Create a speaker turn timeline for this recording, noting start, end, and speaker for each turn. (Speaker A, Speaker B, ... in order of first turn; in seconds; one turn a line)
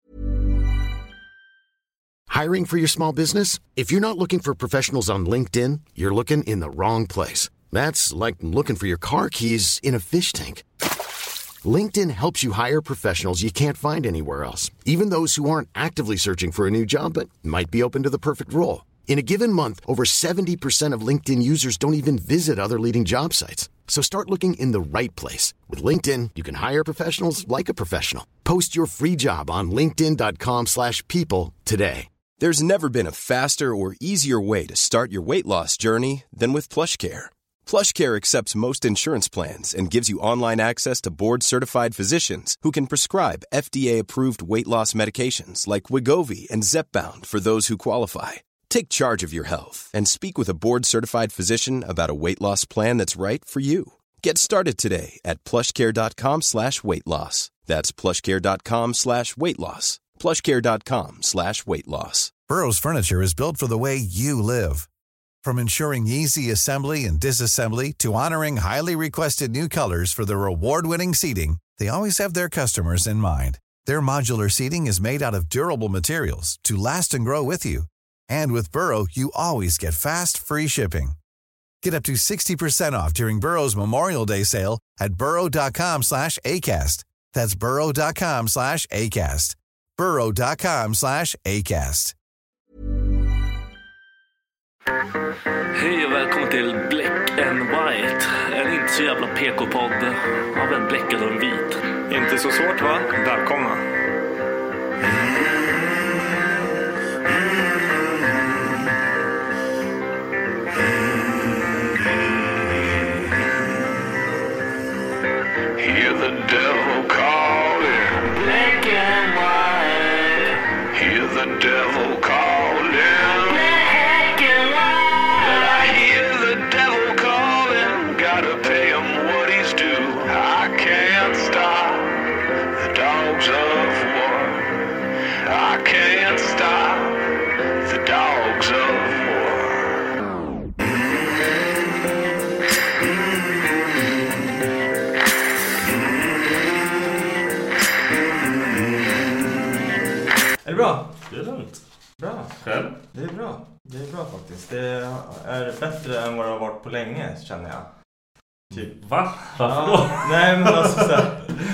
Speaker A: 2.3-10.7
Speaker A: 11.6-32.1
Speaker B: 32.4-62.3
Speaker C: 62.5-64.9
Speaker C: 65.4-81.2
Speaker C: 81.8-92.1
Speaker D: 95.7-101.8
Speaker E: 102.1-103.8
Speaker F: 112.6-113.3
Speaker F: 115.8-120.4
Speaker F: 120.9-123.9
Speaker F: 125.2-132.2
Speaker F: 132.7-134.7
Speaker F: 135.4-140.1
Speaker F: 140.8-141.6
Speaker F: 143.3-143.6
Speaker F: 145.8-146.9
Speaker F: 148.6-149.3
Speaker E: 150.6-151.1
Speaker D: 151.2-151.8
Speaker E: 152.2-152.6
Speaker D: 152.6-153.0
Speaker E: 153.1-157.8
Speaker D: 158.7-161.3
Speaker E: 159.6-161.6